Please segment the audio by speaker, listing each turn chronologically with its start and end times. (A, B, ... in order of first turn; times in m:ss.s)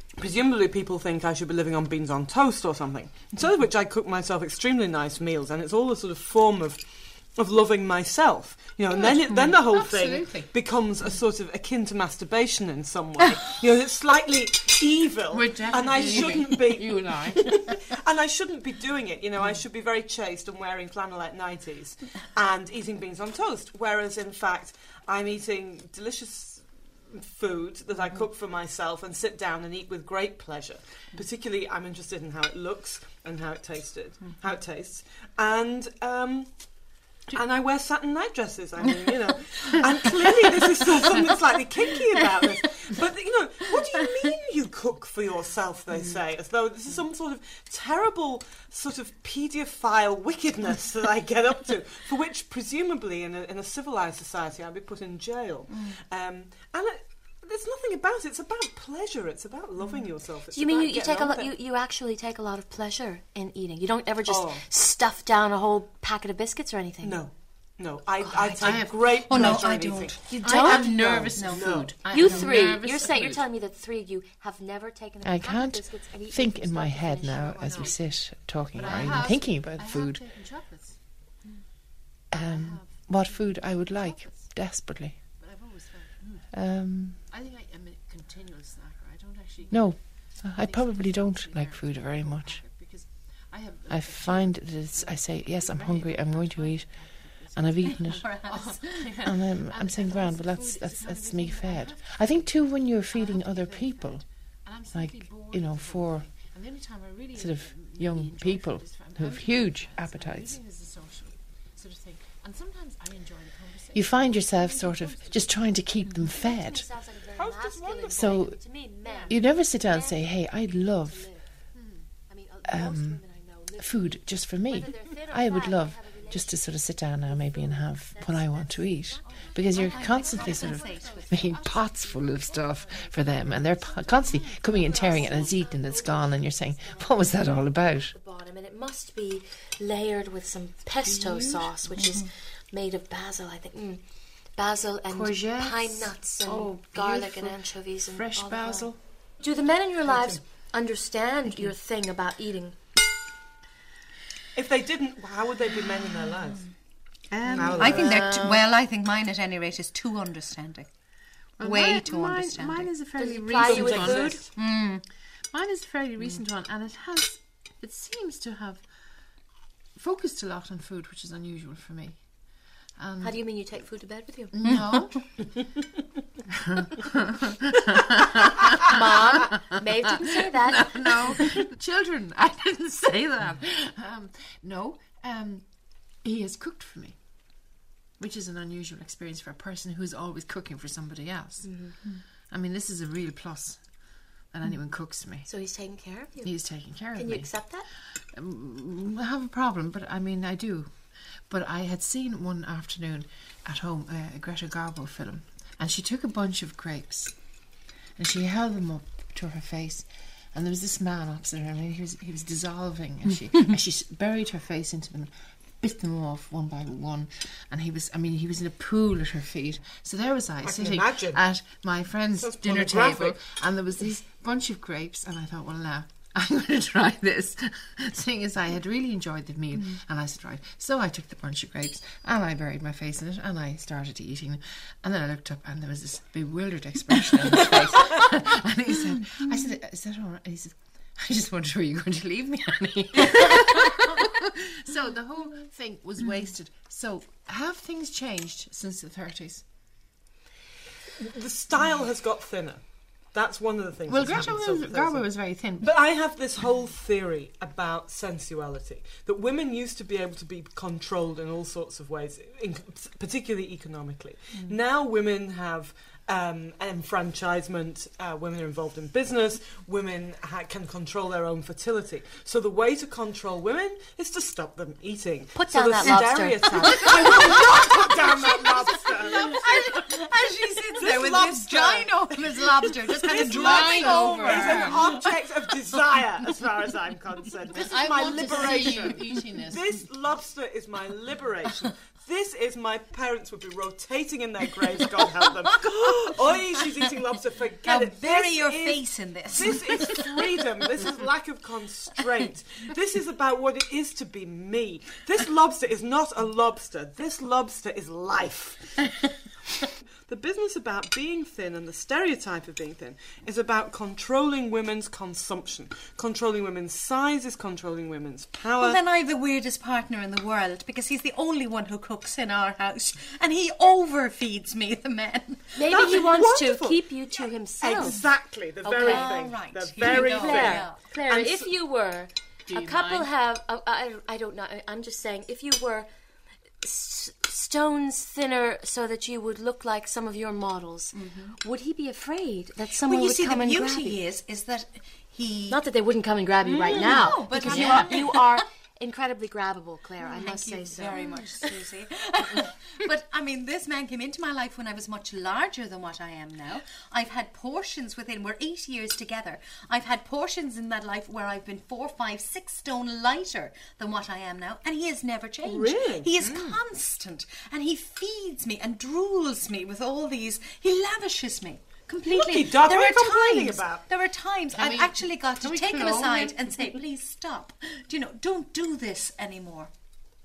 0:00.2-1:01.5 A
0:09.0-0:10.5 B
0:15.3-0:17.7 B
0:41.9-0:42.9 C
0:43.7-0:44.0 C
1:00.5-1:08.8 D
1:04.3-1:04.6 A
1:07.0-1:10.2 A
1:08.5-1:09.7 B
1:09.0-1:12.5 C
1:10.2-1:13.4 B
1:10.3-1:18.0 D
1:11.4-1:11.9 A
1:15.2-1:20.2 E
1:18.7-1:21.0 B
1:22.3-1:25.2 E
1:22.3-1:24.5 B
1:25.4-1:26.5 B
1:26.5-1:27.2 E
1:27.3-1:55.8 B
1:29.7-1:32.6 E
1:33.9-1:38.3 E
1:38.0-1:39.1 C
1:39.2-1:44.2 E
1:44.9-1:46.4 E
1:47.4-1:50.6 E
1:53.9-1:56.9 E
1:56.3-2:00.4 D
1:57.4-1:58.4 A
1:58.1-1:58.6 E
1:59.3-2:01.3 E
2:01.0-2:01.5 D
2:01.7-2:02.1 B
2:02.3-2:06.7 D
2:02.6-2:03.2 E
2:03.8-2:18.2 E
2:07.2-2:11.2 D
2:09.3-2:11.7 C
2:09.6-2:12.4 B
2:12.5-2:24.0 D
2:12.9-2:15.7 B
2:21.0-2:21.7 B
2:24.5-2:32.8 D
2:25.1-2:29.0 B
2:30.1-2:30.4 A
2:31.5-2:31.7 C
2:34.5-2:38.2 A
2:37.3-2:38.6 B
2:37.5-2:41.0 C
2:41.6-2:44.8 B
2:41.6-2:43.0 C
2:43.2-2:44.4 D
2:43.6-2:44.5 A
2:44.6-2:45.0 C
2:45.5-2:53.4 B
2:53.2-2:54.5 D
2:54.5-2:55.7 B
2:54.6-2:55.3 C
2:56.8-2:57.1 B
2:58.8-2:59.8 B
2:58.9-3:01.5 D
3:00.5-3:15.5 B
3:11.6-3:12.0 D
3:15.4-3:17.9 D
3:16.4-3:27.6 B
3:28.2-4:04.3 B
3:40.6-3:41.4 A
3:42.4-3:43.4 A
3:57.1-3:57.7 E
3:58.9-3:59.8 E
4:04.8-4:09.7 B
4:11.2-4:40.1 A
4:14.1-4:15.9 B
4:35.6-4:37.3 D
4:36.9-4:45.3 C
4:41.0-4:42.1 A
4:42.8-5:09.3 A
4:43.2-4:45.1 B
4:47.7-4:50.1 B
4:48.5-4:49.2 C
4:55.7-4:57.0 C
4:57.8-5:00.5 C
5:10.2-5:19.0 A
5:18.8-5:26.0 C
5:25.8-5:28.2 D
5:25.9-5:27.2 A
5:27.8-5:30.9 A
5:28.0-5:31.1 C
5:28.8-5:36.1 D
5:31.3-5:31.7 B
5:32.7-5:33.3 B
5:36.8-5:44.2 D
5:41.1-5:41.6 C
5:42.9-5:45.8 C
5:45.7-5:51.2 D
5:46.9-5:48.5 C
5:47.6-5:48.1 B
5:50.3-5:51.8 B
5:50.3-6:19.9 C
6:05.6-6:06.3 A
6:06.4-6:06.8 B
6:12.3-6:14.1 A
6:14.7-6:16.9 B